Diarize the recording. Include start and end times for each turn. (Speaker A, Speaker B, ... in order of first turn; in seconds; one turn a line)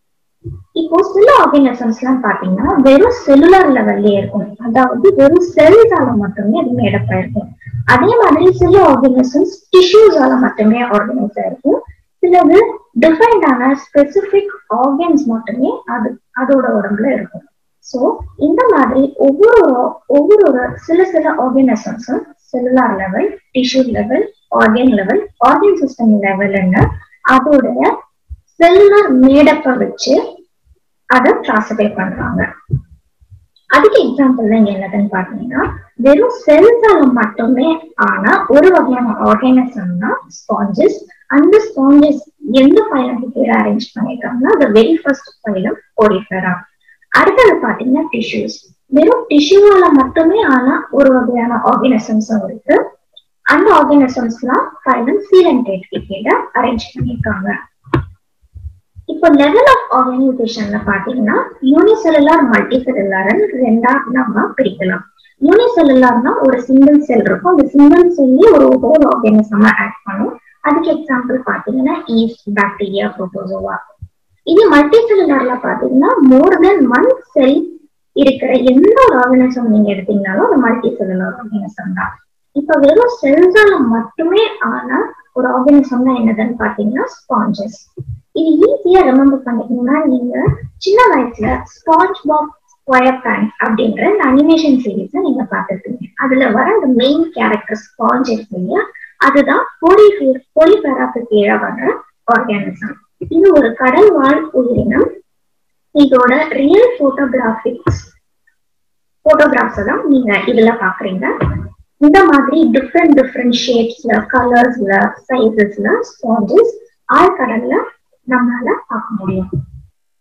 Speaker A: 0.8-27.9
Speaker A: 28.6-30.2
Speaker A: 31.1-32.5
Speaker A: 33.7-46.6
Speaker A: 47.2-52.8
Speaker A: 53.5-57.5
Speaker A: 59.1-73.8
Speaker A: 74.5-77.7
Speaker A: 78.2-105.1
Speaker A: 106.0-108.1
Speaker A: 109.2-111.3
Speaker A: 112.0-119.5